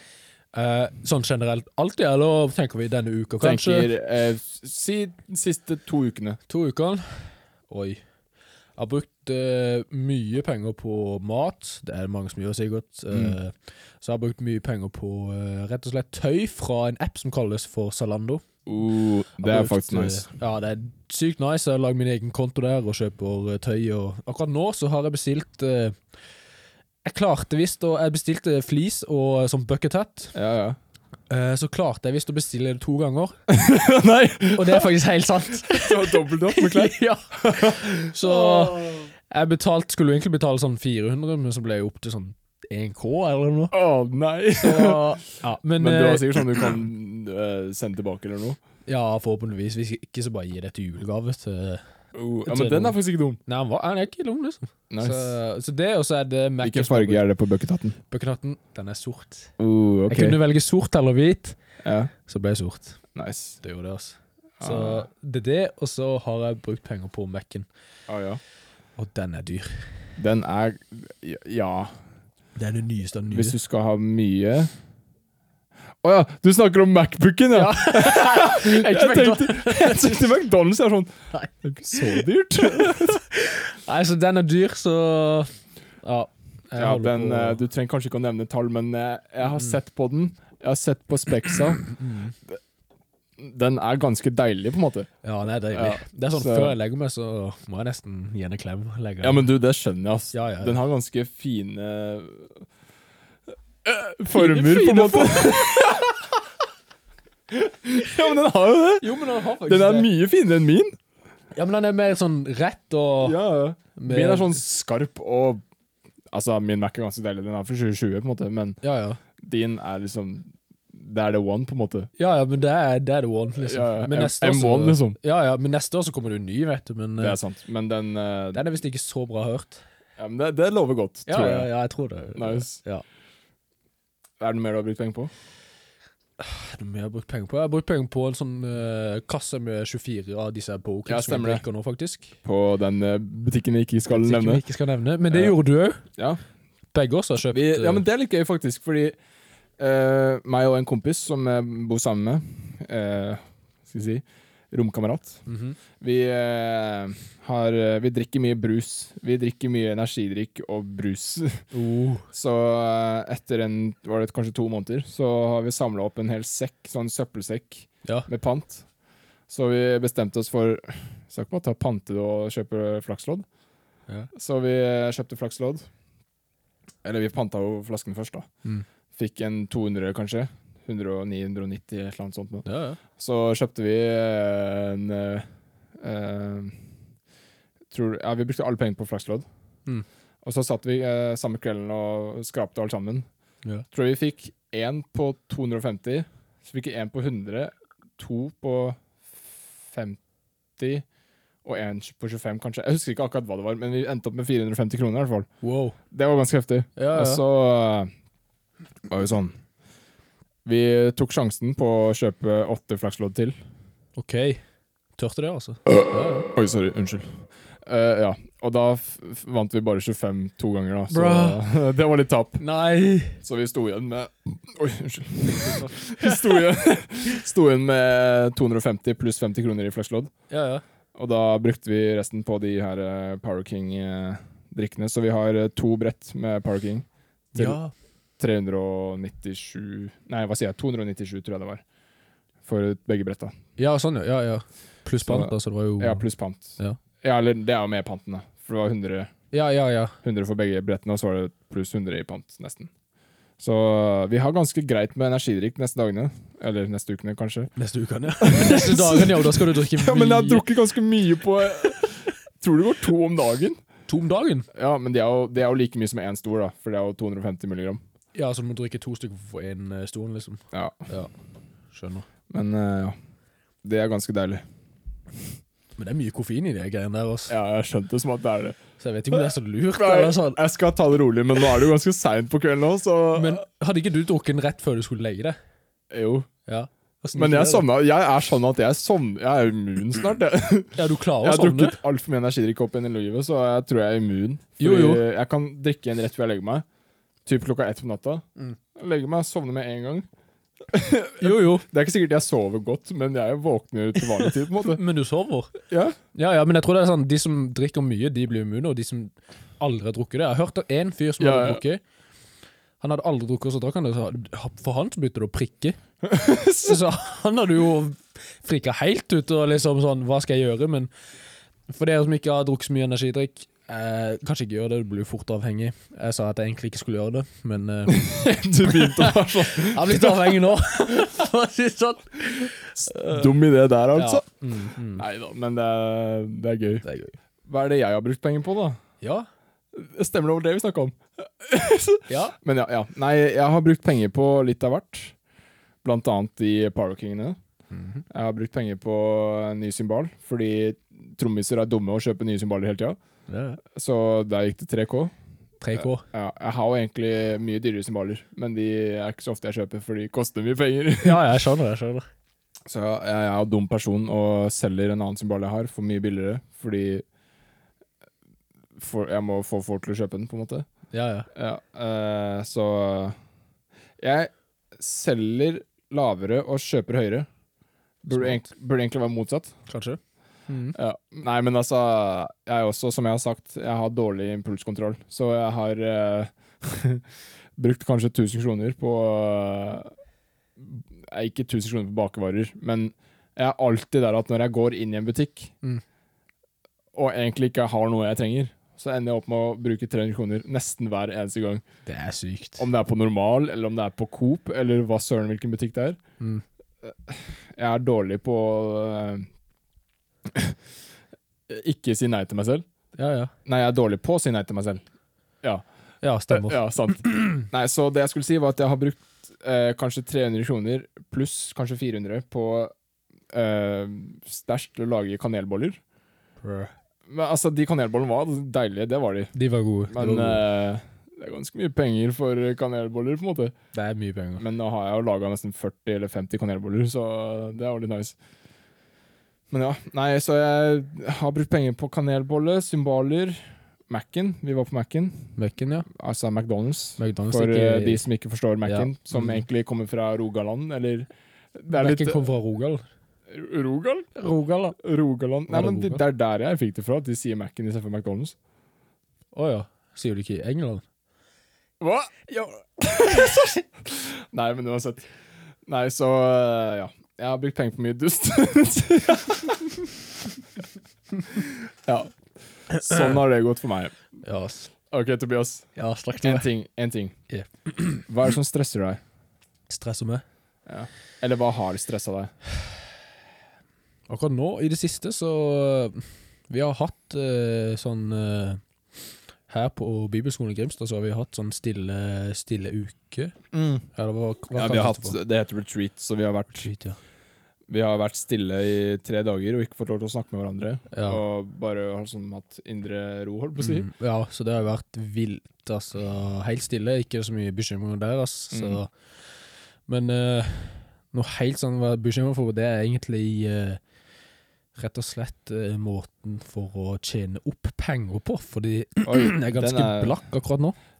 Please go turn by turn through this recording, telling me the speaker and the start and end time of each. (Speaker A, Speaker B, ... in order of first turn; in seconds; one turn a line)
Speaker A: 0.5-3.9
Speaker B: 3.4-6.4
Speaker A: 6.5-8.0
Speaker A: 8.8-18.4
Speaker B: 13.1-13.4
Speaker B: 18.6-20.3
Speaker A: 19.4-26.0
Speaker A: 27.0-30.3
Speaker B: 30.3-30.8
Speaker A: 31.3-33.4
Speaker B: 33.5-34.9
Speaker A: 34.5-43.7
Speaker B: 35.6-39.1
Speaker B: 43.7-45.2
Speaker A: 44.6-46.5
Speaker B: 45.7-48.6
Speaker A: 48.9-51.8
Speaker B: 52.1-53.4
Speaker A: 52.5-57.2
Speaker B: 54.9-55.3
Speaker B: 56.6-58.0
Speaker A: 58.1-59.5
Speaker B: 59.6-60.4
Speaker A: 60.1-61.5
Speaker B: 61.8-62.1
Speaker A: 62.2-63.0
Speaker B: 63.1-63.6
Speaker A: 63.6-67.7
Speaker B: 64.6-65.1
Speaker B: 68.1-68.4
Speaker A: 69.0-69.8
Speaker B: 70.2-71.9
Speaker A: 72.5-73.6
Speaker B: 73.3-74.7
Speaker B: 76.0-83.2
Speaker A: 77.5-80.2
Speaker A: 81.3-85.5
Speaker A: 86.0-87.6
Speaker B: 86.8-91.9
Speaker A: 91.8-92.3
Speaker B: 93.4-95.1
Speaker A: 95.2-99.5
Speaker B: 95.7-96.8
Speaker B: 99.2-102.6
Speaker A: 100.3-100.8
Speaker B: 103.8-106.1
Speaker A: 104.3-106.1
Speaker B: 107.5-109.0
Speaker A: 109.0-110.1
Speaker B: 109.6-110.9
Speaker A: 111.5-113.4
Speaker B: 113.2-115.6
Speaker A: 114.0-114.6
Speaker B: 116.3-118.8
Speaker A: 118.8-119.2
Speaker B: 119.4-122.1
Speaker A: 122.2-127.4
Speaker B: 123.6-125.2
Speaker B: 127.2-128.6
Speaker A: 128.5-129.8
Speaker B: 130.2-131.7
Speaker A: 131.3-133.0
Speaker B: 132.3-132.8
Speaker B: 134.4-135.3
Speaker A: 136.4-142.3
Speaker B: 141.1-141.6
Speaker B: 142.4-144.6
Speaker A: 144.1-146.0
Speaker B: 145.3-145.5
Speaker A: 146.9-148.0
Speaker B: 147.5-149.2
Speaker B: 149.8-155.4
Speaker A: 155.4-155.8
Speaker B: 156.0-161.6
Speaker A: 161.7-162.2
Speaker B: 162.3-168.8
Speaker B: 169.5-173.4
Speaker B: 174.3-175.9
Speaker B: 177.0-178.5
Speaker B: 179.1-182.7
Speaker A: 182.6-183.0
Speaker B: 183.2-185.5
Speaker B: 186.0-186.8
Speaker B: 187.9-189.4
Speaker B: 190.4-193.2
Speaker B: 193.9-199.0
Speaker B: 199.9-200.2
Speaker B: 200.8-201.0
Speaker B: 201.6-205.5
Speaker A: 205.6-205.9
Speaker B: 206.1-208.1
Speaker A: 207.0-207.4
Speaker B: 209.1-209.6
Speaker B: 210.7-213.5
Speaker A: 214.2-214.6
Speaker A: 215.2-216.5
Speaker B: 216.5-217.3
Speaker B: 217.8-222.6
Speaker A: 221.1-221.6
Speaker A: 222.6-223.3
Speaker B: 223.4-230.3
Speaker A: 225.6-226.6
Speaker A: 230.5-230.8
Speaker B: 231.1-237.8
Speaker A: 237.5-237.9
Speaker B: 238.4-241.8
Speaker B: 242.6-243.5
Speaker A: 243.8-246.2
Speaker B: 245.2-249.3
Speaker A: 249.5-250.1
Speaker B: 250.2-252.9
Speaker B: 253.6-257.7
Speaker A: 257.8-260.6
Speaker B: 258.4-263.8
Speaker A: 264.1-264.7
Speaker B: 264.7-268.0
Speaker A: 268.3-271.3
Speaker B: 270.7-271.0
Speaker A: 271.9-272.2
Speaker B: 272.5-273.1
Speaker B: 273.8-274.6
Speaker A: 276.0-277.5
Speaker B: 277.5-278.8
Speaker A: 279.0-280.6
Speaker B: 279.9-283.6
Speaker A: 283.3-285.6
Speaker B: 286.1-286.5
Speaker A: 286.7-287.9
Speaker B: 287.3-296.8
Speaker A: 290.9-292.0
Speaker A: 294.8-295.2
Speaker B: 297.4-300.3
Speaker B: 300.9-305.0
Speaker A: 301.4-301.8
Speaker A: 304.4-305.7
Speaker B: 305.9-306.1
Speaker A: 306.3-312.0
Speaker B: 311.4-311.8
Speaker A: 313.0-316.0
Speaker B: 316.2-317.0
Speaker A: 316.8-321.1
Speaker A: 321.9-333.5
Speaker B: 328.1-330.6
Speaker B: 333.0-334.4
Speaker A: 334.1-335.2
Speaker B: 335.1-337.0
Speaker A: 337.0-337.4
Speaker B: 337.6-339.0
Speaker A: 339.2-339.5
Speaker B: 339.9-345.3
Speaker A: 342.3-342.6
Speaker B: 346.0-347.6
Speaker A: 347.9-348.2
Speaker B: 348.3-353.2
Speaker A: 353.5-353.8
Speaker B: 353.9-355.3
Speaker A: 355.8-356.2
Speaker B: 355.9-361.4
Speaker A: 361.2-362.2
Speaker B: 362.9-367.2
Speaker B: 369.0-370.9
Speaker A: 371.1-371.5
Speaker B: 371.5-373.4
Speaker B: 374.2-377.5
Speaker B: 378.2-379.8
Speaker A: 378.3-378.6
Speaker A: 379.9-381.0
Speaker B: 380.9-387.2
Speaker B: 387.8-390.1
Speaker B: 390.8-395.7
Speaker B: 397.1-401.8
Speaker A: 402.1-402.9
Speaker B: 402.8-406.2
Speaker B: 407.0-409.5
Speaker B: 410.5-410.8
Speaker B: 411.7-412.8
Speaker A: 413.2-413.5
Speaker B: 413.6-415.0
Speaker A: 416.2-417.6
Speaker B: 416.5-422.9
Speaker B: 423.5-426.0
Speaker A: 426.6-426.9
Speaker B: 427.3-429.5
Speaker A: 429.5-430.6
Speaker B: 430.1-433.7
Speaker A: 433.9-434.6
Speaker B: 434.6-438.4
Speaker B: 439.7-445.5
Speaker A: 445.6-446.1
Speaker B: 446.1-452.4
Speaker A: 447.2-448.2
Speaker A: 448.8-449.6
Speaker A: 451.9-453.0
Speaker B: 453.5-454.3
Speaker A: 454.4-455.0
Speaker B: 455.0-458.5
Speaker A: 455.7-456.2
Speaker A: 459.5-461.0
Speaker B: 462.0-465.3
Speaker A: 463.3-463.7
Speaker B: 465.9-470.1
Speaker B: 471.5-472.3
Speaker B: 472.9-474.1
Speaker A: 472.9-473.3
Speaker A: 474.4-474.9
Speaker B: 475.1-475.9
Speaker A: 475.9-476.7
Speaker B: 476.4-477.4
Speaker A: 477.5-478.2
Speaker B: 478.2-479.2
Speaker A: 479.9-480.4
Speaker B: 480.9-482.5
Speaker A: 484.3-488.8
Speaker A: 489.7-493.5
Speaker B: 493.7-494.1
Speaker A: 494.1-495.4
Speaker B: 494.7-496.9
Speaker A: 496.8-497.2
Speaker B: 497.9-504.1
Speaker A: 501.1-501.4
Speaker A: 503.8-509.1
Speaker B: 508.7-509.0
Speaker A: 510.1-514.0
Speaker A: 515.0-521.0
Speaker B: 519.2-520.4